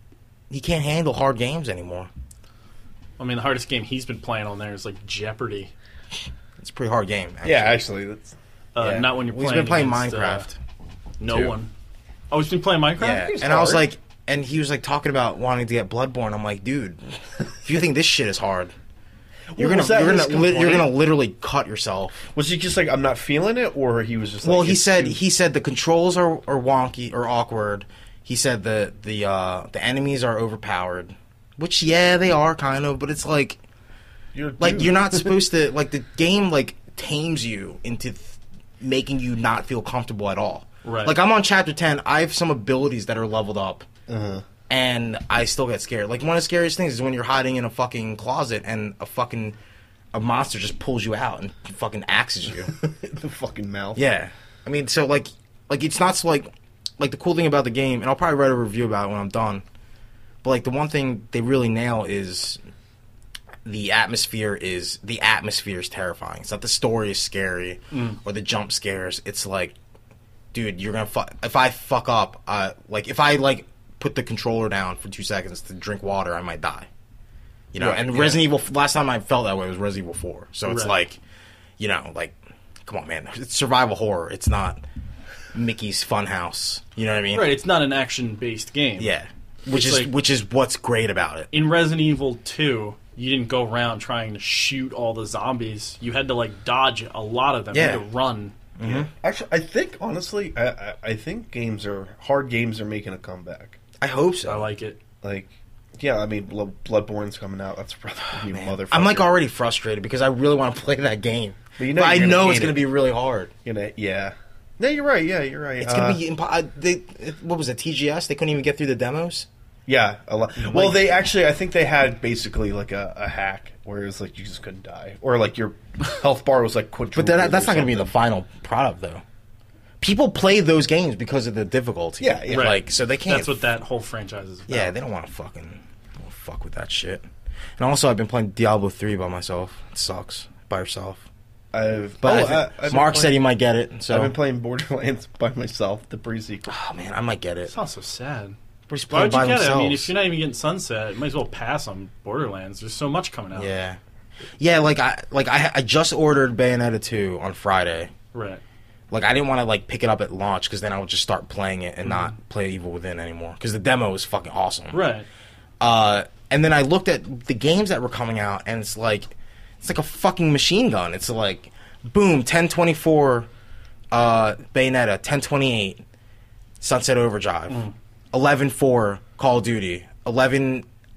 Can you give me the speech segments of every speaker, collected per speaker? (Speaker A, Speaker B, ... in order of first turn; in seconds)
Speaker A: 0.5-2.1, 6.6-7.8, 9.2-10.6, 13.0-18.7, 19.6-22.3, 24.4-33.6, 34.6-43.9, 44.7-49.6, 50.1-52.8, 54.0-59.6, 60.4-62.6, 63.6-69.8, 70.5-76.9, 77.7-81.2, 81.8-84.8, 85.5-87.6, 89.0-91.5, 97.7-98.0, 98.8-99.1, 104.0-104.7, 108.5-113.5, 115.8-119.5, 120.6-121.0, 127.2-129.2, 130.0-133.5, 134.7-141.2, 142.2-144.3, 146.7-147.7, 148.9-150.1, 153.5-154.0, 154.6-158.1, 159.1-165.0, 165.8-173.5, 174.1-176.0, 176.8-180.9
Speaker B: 3.2-5.7, 8.8-10.5, 11.2-11.7, 12.3-13.3, 40.9-41.2, 67.9-68.2, 80.7-81.0, 87.3-89.1, 89.7-90.1, 91.5-98.5, 104.5-105.0, 132.5-134.9, 147.7-148.6, 149.1-153.7, 158.3-158.6, 162.1-162.3, 164.9-165.3
Speaker C: 7.4-9.1, 11.3-11.5, 13.2-13.9, 19.5-21.0, 22.3-25.2, 34.3-35.4, 44.1-44.5, 52.7-54.0, 77.8-78.4, 98.8-103.8, 105.2-109.3, 111.8-112.8, 113.7-116.2, 119.9-128.1, 132.2-132.8, 141.7-143.4, 144.1-146.8